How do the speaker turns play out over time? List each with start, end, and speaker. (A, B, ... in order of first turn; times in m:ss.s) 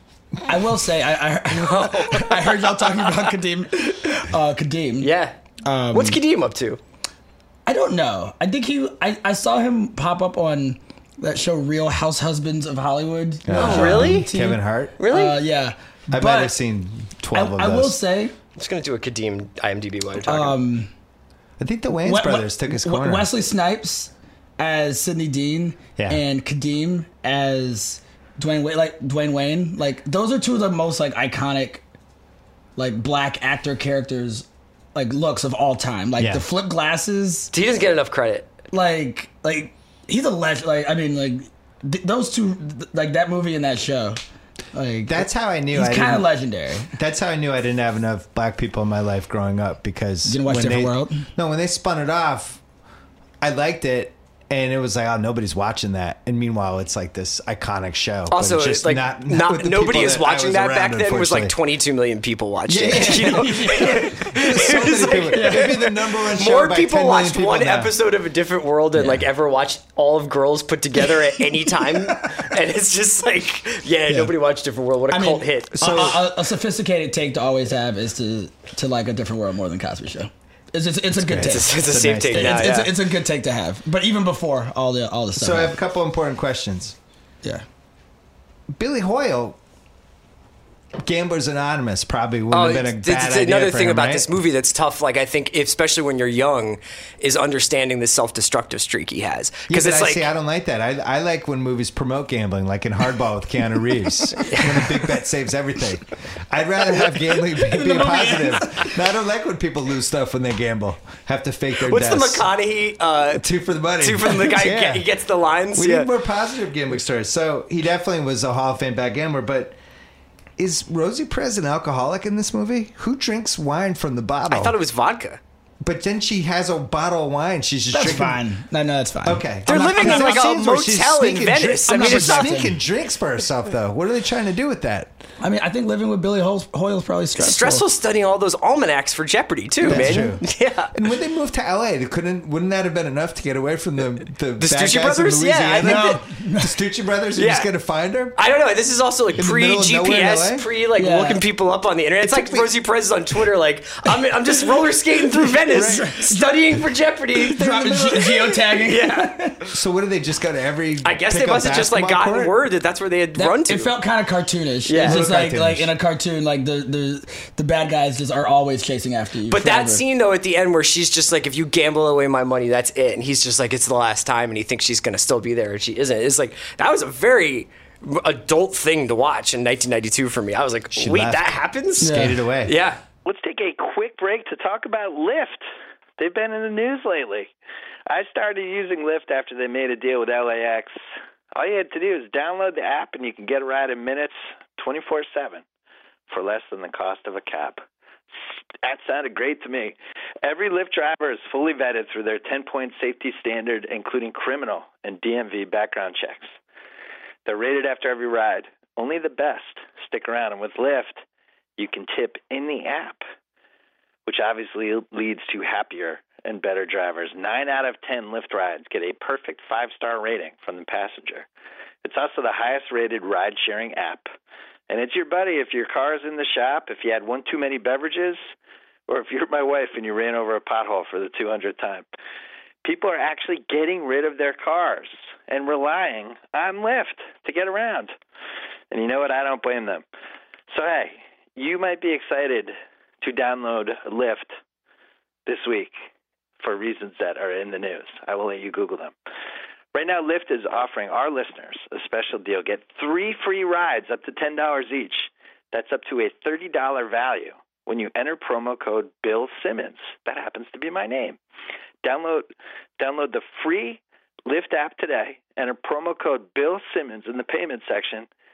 0:00.4-0:05.1 A
0:01.5-0:03.1 B
0:05.0-0:05.4 B
0:05.6-0:06.2 A
0:05.9-0:06.8 B
0:07.6-0:16.6 A
0:13.4-0:15.0 C
0:13.5-0:14.3 B
0:15.0-0:15.4 B
0:16.1-0:18.0 C
0:17.3-0:18.3 A
0:18.6-0:20.6 B
0:20.2-0:20.9 A
0:21.6-0:23.3 C
0:22.0-0:31.8 A
0:32.8-0:37.5 A
0:36.2-0:36.4 C
0:37.5-0:38.5 B
0:38.7-0:44.2 A
0:44.7-0:46.9 A
0:45.0-0:46.3 C
0:47.0-0:52.6 C
0:50.2-0:51.3 A
0:53.4-1:01.6 C
0:58.3-1:16.1 B
1:02.7-1:07.9 C
1:03.0-1:04.7 A
1:05.3-1:05.9 A
1:09.0-1:09.2 A
1:11.8-1:12.4 A
1:15.1-1:21.8 A
1:15.8-1:16.2 C
1:21.2-1:22.7 C
1:21.4-1:22.9 B
1:22.3-1:25.8 A
1:25.3-1:27.0 C
1:28.7-1:29.6 C
1:31.0-1:34.3 C
1:32.5-1:40.3 B
1:39.7-1:52.5 C
1:44.4-1:44.8 B
1:47.2-1:49.0 A
1:51.8-1:53.4 B
1:53.4-1:55.1 C
1:54.0-1:56.1 B
1:55.7-1:59.8 C
2:00.6-2:04.8 C
2:04.5-2:05.4 B
2:05.8-2:08.4 C
2:07.9-2:10.5 A
2:09.2-2:15.2 C
2:09.6-2:12.5 B
2:11.9-2:12.8 A
2:15.4-2:17.8 A
2:17.4-2:20.9 B
2:19.8-2:20.3 A
2:19.8-2:28.4 C
2:24.6-2:26.2 B
2:25.8-2:26.8 A
2:27.4-2:27.7 B
2:28.4-2:39.5 B
2:29.4-2:30.6 C
2:31.0-2:31.4 A
2:32.3-2:32.7 C
2:35.4-2:36.8 A
2:35.7-2:36.1 C
2:37.3-2:39.6 A
2:39.7-2:42.5 C
2:41.0-2:43.9 B
2:43.4-2:50.0 A
2:44.8-2:45.2 B
2:45.0-2:45.9 C
2:49.5-3:02.1 B
3:00.9-3:02.7 C
3:02.0-3:02.4 A
3:02.6-3:03.0 B
3:03.2-3:05.6 D
3:06.2-3:07.5 D
3:08.1-3:10.9 D
3:11.5-3:15.6 D
3:16.3-3:17.8 D
3:18.8-3:26.5 D
3:27.4-3:31.2 D
3:31.8-3:33.2 D
3:34.2-3:41.5 D
3:42.0-3:44.3 D
3:44.9-3:48.4 D
3:49.1-3:52.0 D
3:52.8-3:58.1 D
3:58.9-4:00.0 D
4:00.7-4:04.5 D
4:05.4-4:05.9 D
4:06.6-4:09.1 D
4:09.9-4:21.4 D
4:22.0-4:28.3 D